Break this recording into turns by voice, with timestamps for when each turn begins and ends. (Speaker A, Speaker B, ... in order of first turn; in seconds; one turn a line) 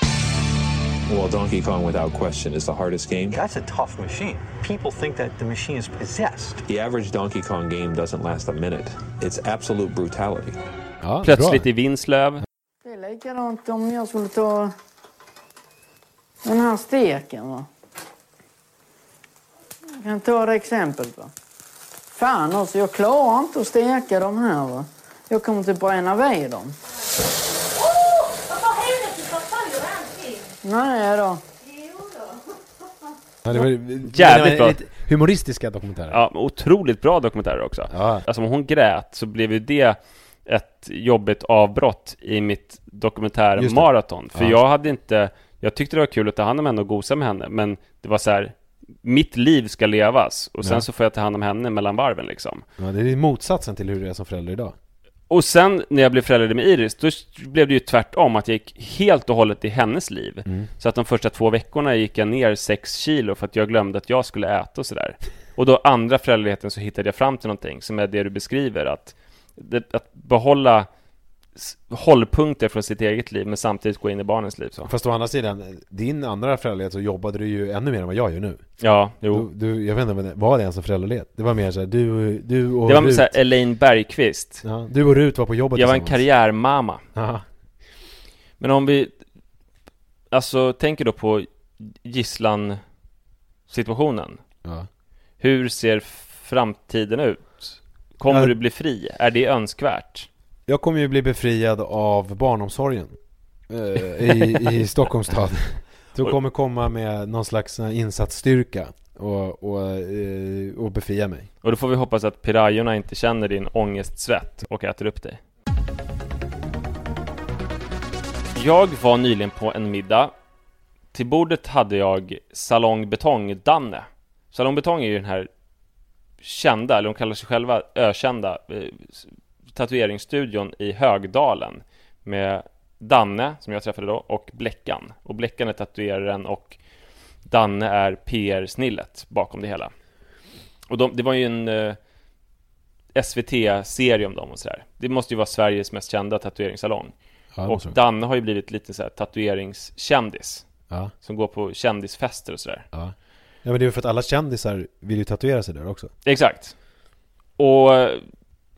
Speaker A: 1.1-3.4
Speaker B: 3.3-6.6
Speaker A: 6.7-10.6
Speaker C: 11.0-11.7
Speaker D: 11.2-12.4
Speaker E: 12.8-14.7
Speaker E: 16.4-17.7
Speaker E: 20.0-21.3
Speaker E: 22.1-26.7
Speaker E: 30.6-31.4
Speaker C: 33.4-36.2
Speaker D: 34.0-34.8
Speaker D: 36.1-52.6
Speaker C: 37.9-38.2
Speaker C: 43.6-44.6
Speaker C: 50.6-50.9
Speaker C: 52.8-54.8
Speaker D: 55.3-70.9
Speaker D: 71.6-74.9
Speaker C: 74.9-78.6
Speaker D: 78.8-79.5
Speaker C: 79.3-83.3
Speaker D: 82.9-84.6
Speaker C: 84.6-86.2
Speaker D: 85.8-87.0
Speaker C: 87.2-87.5
Speaker D: 88.6-89.2
Speaker D: 90.3-92.8
Speaker D: 93.7-94.4
Speaker D: 95.4-100.3
Speaker C: 98.3-98.5
Speaker C: 100.7-103.2
Speaker C: 103.7-111.5
Speaker D: 104.4-104.8
Speaker D: 111.6-115.4
Speaker D: 118.5-120.3
Speaker D: 121.1-125.5
Speaker D: 126.4-136.8
Speaker D: 137.5-139.9
Speaker D: 140.9-142.0
Speaker D: 143.2-147.1
Speaker C: 147.6-148.0
Speaker D: 147.7-150.7
Speaker D: 151.2-152.9
Speaker C: 152.9-156.1
Speaker D: 156.2-156.7
Speaker D: 157.6-158.2